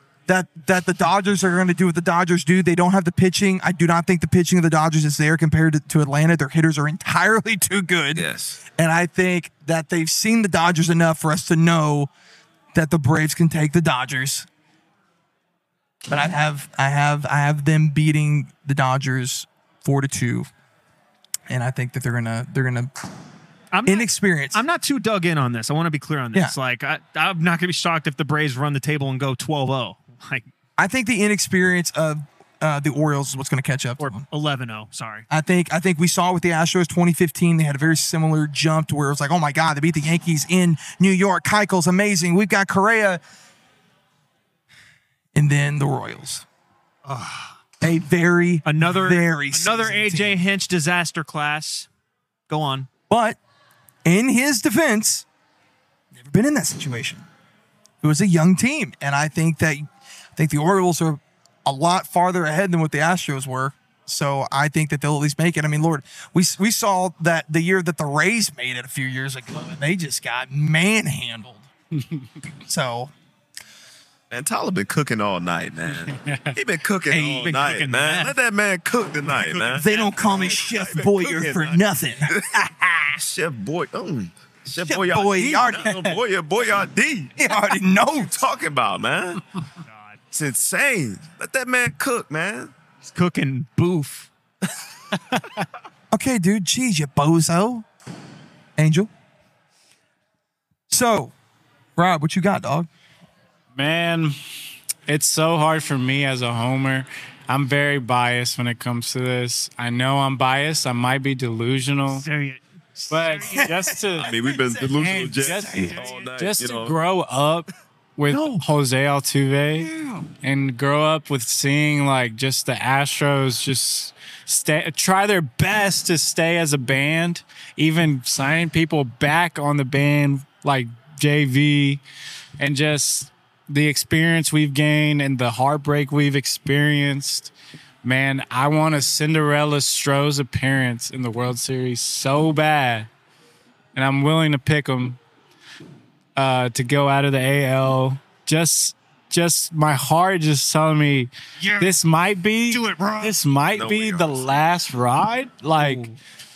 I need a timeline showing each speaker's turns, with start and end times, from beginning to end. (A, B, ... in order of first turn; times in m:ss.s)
0:00.3-0:12.1 A
0:08.1-0:08.6 B
0:12.7-0:14.5 A
0:16.1-0:20.5 A
0:21.5-0:22.9 A
0:23.7-0:30.5 C
0:23.8-0:24.6 A
0:30.8-0:34.2 A
0:34.0-0:35.3 C
0:35.3-0:43.2 A
0:45.3-0:46.4 A
0:47.0-0:47.6 C
0:47.8-0:50.4 A
0:48.6-0:51.9 C
0:52.5-0:52.9 C
0:53.1-0:53.4 A
0:54.0-0:55.2 A
0:56.1-0:57.2 A
0:58.0-1:11.7 A
1:11.9-1:12.3 D
1:12.6-1:13.1 A
1:14.3-1:27.4 B
1:16.1-1:16.5 D
1:17.1-1:17.4 A
1:17.4-1:18.3 C
1:19.7-1:22.3 A
1:24.8-1:26.0 A
1:27.4-1:28.4 A
1:28.2-1:29.4 B
1:29.8-1:30.2 C
1:30.3-1:32.7 B
1:33.1-1:34.3 C
1:36.1-1:37.8 A
1:38.8-1:39.1 A
1:40.9-1:41.3 A
1:42.0-1:42.9 A
1:43.7-1:44.4 D
1:45.0-1:52.2 D
1:52.1-1:53.7 C
1:53.1-1:54.3 D
1:53.4-1:56.0 A
1:54.2-1:57.0 B
1:55.0-2:12.0 D
1:55.7-1:56.3 C
1:58.3-1:58.6 C
2:12.6-2:23.1 D
2:23.9-2:25.2 D
2:26.4-2:36.0 D
2:31.6-2:32.0 C
2:32.7-2:33.4 C
2:33.7-2:34.5 B
2:35.8-2:36.2 C